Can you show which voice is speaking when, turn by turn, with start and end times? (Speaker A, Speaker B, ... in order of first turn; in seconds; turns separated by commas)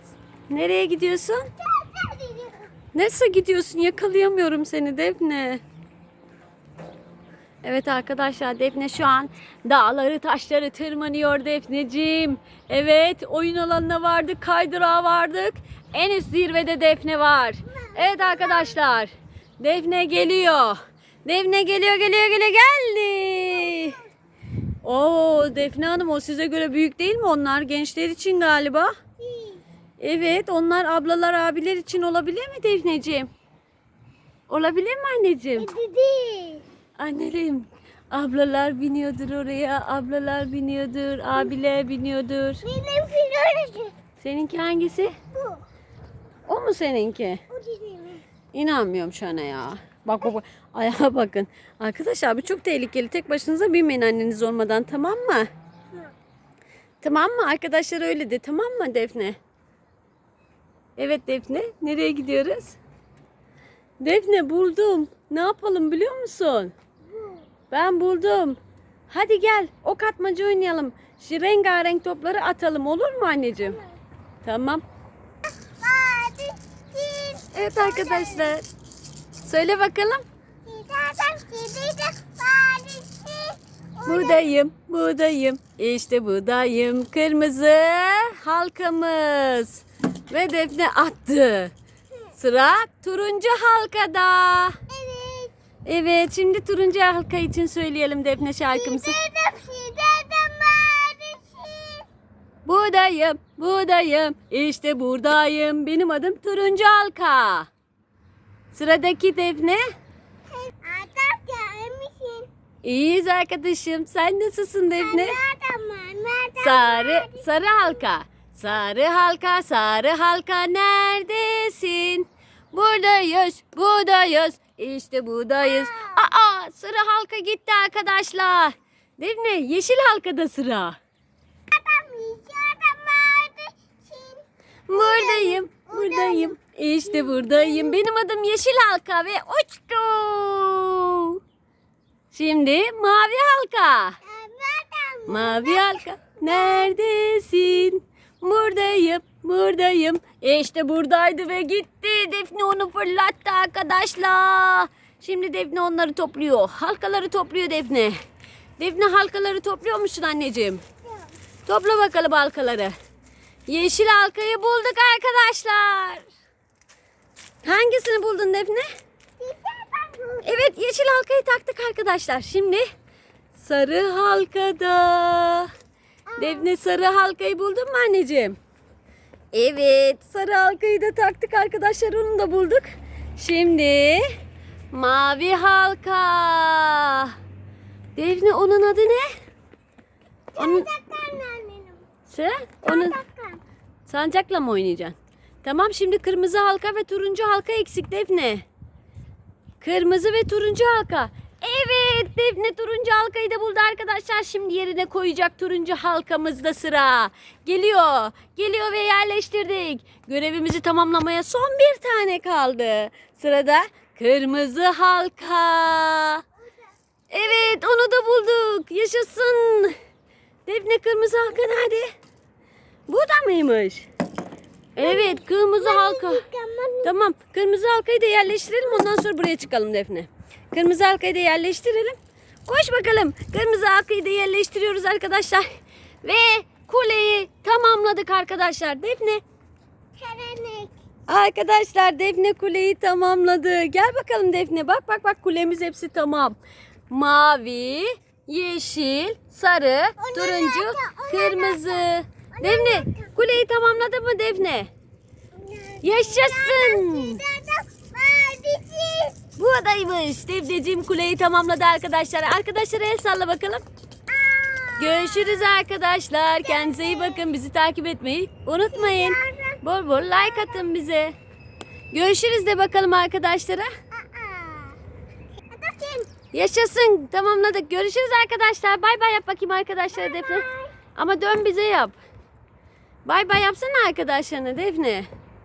Speaker A: 0.5-1.5, Speaker B: 1.6-2.6, Speaker A: 2.9-5.6, Speaker A: 7.6-24.0, Speaker B: 17.8-18.8, Speaker B: 23.7-23.9, Speaker A: 24.8-28.9, Speaker B: 29.2-29.6, Speaker A: 30.0-33.3, Speaker A: 34.5-35.7, Speaker B: 35.6-36.6, Speaker A: 37.0-42.6, Speaker B: 42.6-43.9, Speaker A: 44.2-45.1, Speaker B: 45.3-45.6, Speaker A: 46.5-47.4, Speaker B: 47.5-48.2, Speaker A: 48.5-55.5, Speaker A: 57.0-59.4, Speaker A: 61.0-62.8, Speaker A: 64.0-66.7, Speaker B: 67.1-67.4, Speaker A: 67.7-73.8, Speaker A: 74.4-74.8, Speaker B: 75.8-78.5, Speaker A: 77.5-78.7, Speaker A: 79.4-80.2, Speaker B: 80.6-84.5, Speaker A: 84.0-91.7, Speaker A: 92.3-94.8, Speaker B: 94.9-95.5, Speaker A: 95.8-99.2, Speaker B: 98.7-102.1, Speaker A: 102.6-107.7, Speaker A: 108.7-109.8, Speaker B: 110.5-112.5, Speaker A: 112.8-115.4, Speaker B: 115.0-117.7, Speaker A: 116.6-131.0, Speaker B: 125.6-126.2, Speaker B: 131.7-136.6, Speaker A: 134.9-141.4, Speaker B: 137.2-138.0, Speaker A: 142.3-144.2, Speaker B: 144.2-146.9, Speaker A: 145.3-158.2, Speaker A: 158.8-160.8, Speaker A: 161.7-162.9, Speaker A: 163.7-166.3, Speaker A: 167.6-168.9, Speaker B: 169.4-170.7, Speaker A: 170.4-172.8, Speaker A: 173.5-175.7, Speaker B: 176.3-176.7, Speaker A: 176.3-178.6, Speaker A: 179.5-184.2, Speaker A: 184.9-187.3, Speaker A: 188.2-189.3, Speaker B: 190.5-192.0, Speaker A: 190.6-190.9, Speaker A: 192.3-193.2, Speaker B: 192.8-193.6, Speaker A: 194.1-198.7, Speaker A: 199.8-216.4, Speaker A: 217.3-219.9, Speaker B: 217.4-217.7, Speaker A: 220.7-222.1, Speaker A: 223.1-224.1, Speaker A: 224.9-226.4, Speaker B: 225.0-227.1, Speaker A: 227.0-235.7, Speaker A: 236.2-239.4, Speaker B: 240.2-240.9, Speaker A: 241.3-246.6, Speaker A: 247.1-254.9, Speaker B: 250.2-253.3, Speaker B: 255.5-259.4, Speaker A: 256.0-257.4, Speaker A: 259.6-263.8, Speaker B: 264.3-265.7, Speaker A: 265.0-271.3, Speaker B: 266.6-267.4, Speaker B: 268.9-269.8, Speaker B: 270.3-270.8, Speaker A: 272.1-273.9, Speaker B: 274.1-275.0, Speaker B: 275.7-276.3, Speaker A: 276.5-282.2, Speaker B: 280.1-280.9, Speaker A: 283.2-285.3